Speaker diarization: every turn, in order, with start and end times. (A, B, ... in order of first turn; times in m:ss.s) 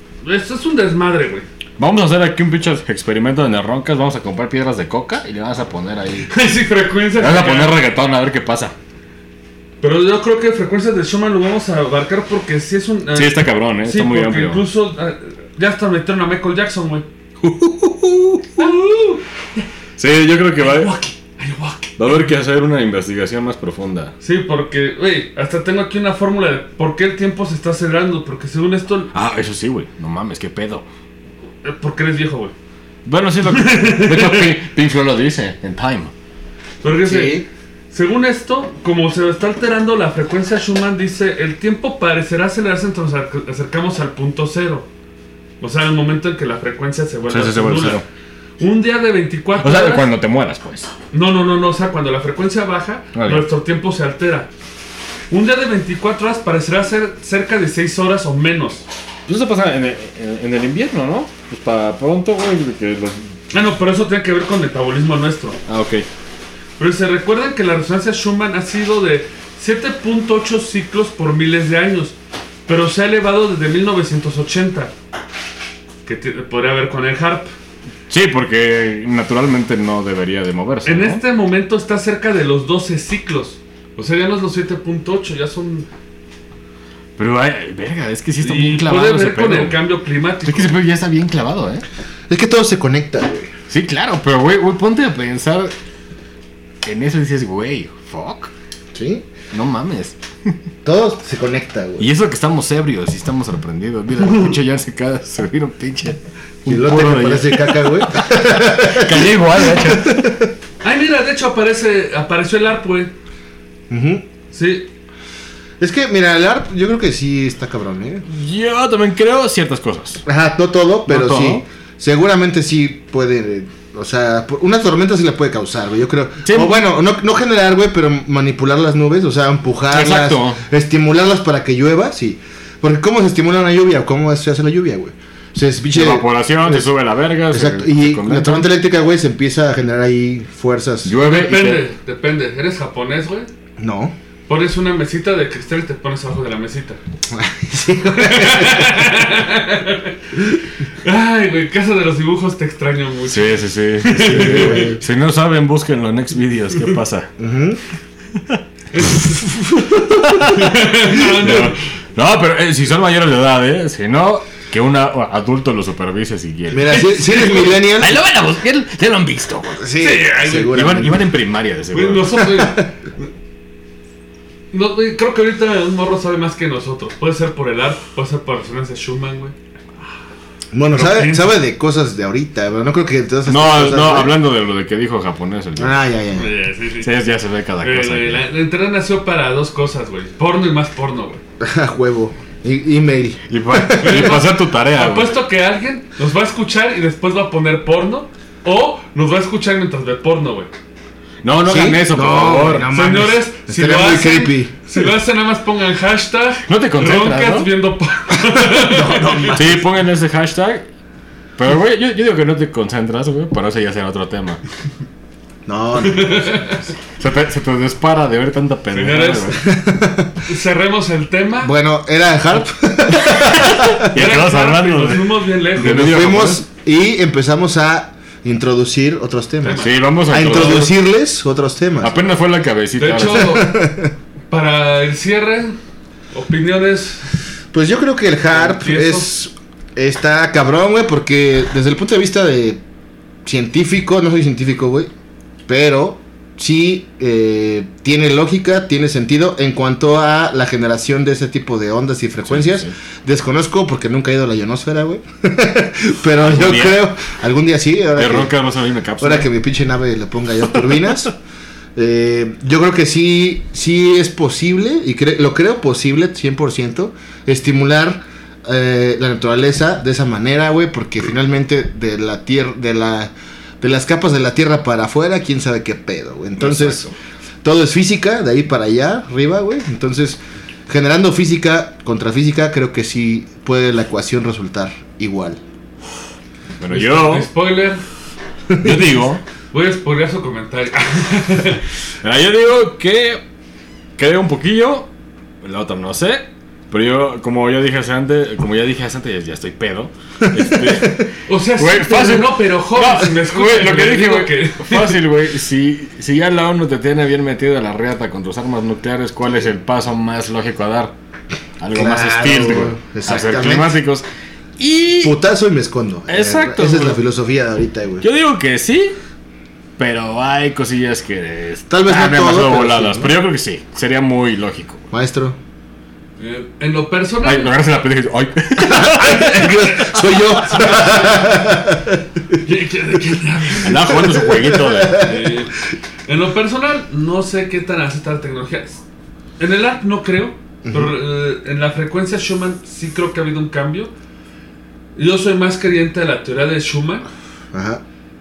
0:00.2-0:01.4 A
0:01.8-0:06.3 B
0:06.3-0:07.8 A
0:07.2-0:08.7 B
0:09.8-0:17.0 A
0:13.1-0:14.6 B
0:17.4-0:18.7 B
0:18.6-0:19.2 A
0:20.0-0:20.9 B
0:20.6-0:22.3 A
0:22.0-0:24.1 B
0:24.2-0:29.1 A
0:29.1-0:30.8 B
0:31.6-0:32.5 A
0:33.0-0:36.1 B
0:33.5-0:34.5 A
0:36.8-0:44.9 A
0:37.1-0:37.4 C
0:45.6-0:48.0 A
0:47.3-0:48.0 B
0:48.6-0:50.1 A
0:49.6-0:50.9 B
0:51.1-0:54.5 A
0:53.1-0:53.5 B
0:55.3-0:58.8 A
0:59.3-1:03.3 B
1:03.5-1:05.6 A
1:05.7-1:06.0 B
1:06.8-1:12.1 A
1:12.7-1:14.9 A
1:16.0-1:17.5 A
1:18.1-1:21.2 B
1:20.8-1:25.9 A
1:27.2-1:29.8 B
1:28.4-1:30.8 A
1:30.4-1:31.8 B
1:32.3-1:33.5 C
1:33.7-1:35.7 B
1:36.8-1:38.5 B
1:38.9-1:39.3 C
1:39.5-1:40.5 B
1:40.8-1:42.1 C
1:42.0-1:50.3 B
1:46.6-1:50.5 C
1:50.8-1:53.1 A
1:53.9-1:54.2 C
1:54.5-1:54.9 A
1:55.8-1:58.2 C
1:58.3-2:00.2 B
2:00.2-2:16.9 C
2:01.0-2:01.6 B
2:06.4-2:06.8 B
2:09.9-2:10.6 B
2:15.9-2:18.7 B
2:17.5-2:21.2 C
2:21.0-2:21.8 B
2:21.3-2:23.5 A
2:23.8-2:24.1 C
2:24.5-2:27.0 A
2:27.3-2:29.0 C
2:28.0-2:34.9 A
2:33.3-2:37.3 B
2:34.2-2:35.0 C
2:37.4-2:37.8 C
2:38.5-2:39.2 B
2:38.9-2:39.4 A
2:39.8-2:49.8 B
2:40.6-2:41.8 A
2:46.7-2:48.2 C
2:49.8-2:51.2 C
2:50.0-2:51.0 A
2:50.7-2:52.4 B
2:51.9-2:53.3 A
2:52.3-2:52.9 C
2:54.7-2:59.5 A
3:00.7-3:04.3 C
3:00.9-3:01.5 A
3:03.5-3:06.0 B
3:05.8-3:06.6 C
3:06.3-3:07.1 A
3:07.0-3:08.4 B
3:07.8-3:11.4 A
3:11.6-3:14.4 C
3:13.5-3:15.3 B
3:14.0-3:20.7 A
3:21.4-3:22.9 B
3:21.6-3:24.7 C
3:22.9-3:29.5 A
3:26.7-3:27.7 B
3:28.5-3:29.9 C
3:29.5-3:30.8 B
3:31.6-3:34.6 B
3:35.6-3:36.7 C
3:36.0-3:36.8 A
3:37.2-3:39.6 B
3:38.9-3:39.7 A
3:39.6-3:40.4 C
3:40.4-3:41.7 A
3:41.6-3:44.0 C
3:43.3-3:46.6 B
3:44.1-3:46.0 A
3:45.8-3:52.2 C
3:49.6-3:49.9 A
3:49.8-3:50.9 B
3:52.0-3:53.6 B
3:53.0-3:53.7 A
3:53.3-3:54.1 C
3:54.5-3:55.7 A
3:56.3-3:57.4 A
3:57.7-4:02.8 C
3:58.5-3:59.3 A
4:03.4-4:05.1 C
4:05.7-4:18.5 C
4:12.4-4:12.9 B
4:16.4-4:17.1 B
4:18.2-4:19.5 B
4:19.2-4:21.3 C
4:21.9-4:37.1 C
4:36.6-4:37.1 B
4:37.6-4:45.6 C
4:46.8-4:47.5 B
4:46.9-4:48.0 A
4:48.7-4:49.0 C
4:48.8-4:49.4 B
4:49.7-4:51.8 A
4:52.2-4:53.4 B
4:54.2-4:55.1 B
4:55.6-5:11.1 B
5:00.4-5:01.3 C
5:01.5-5:05.2 A
5:11.8-5:14.2 B
5:11.9-5:14.0 C
5:14.8-5:15.3 B
5:15.2-5:18.2 C
5:16.3-5:17.2 B
5:18.2-5:19.2 B
5:20.0-5:25.0 B
5:21.9-5:23.3 C
5:25.1-5:25.6 C
5:26.4-5:27.7 A
5:27.4-5:30.0 B
5:28.8-5:32.2 C
5:29.3-5:29.8 A
5:30.7-5:31.2 A
5:32.6-5:34.2 A
5:33.8-5:35.3 B
5:34.1-5:35.4 C
5:35.2-5:39.0 A
5:39.6-5:44.1 A
5:40.8-5:41.1 C
5:45.2-5:47.3 A
5:47.7-5:48.0 C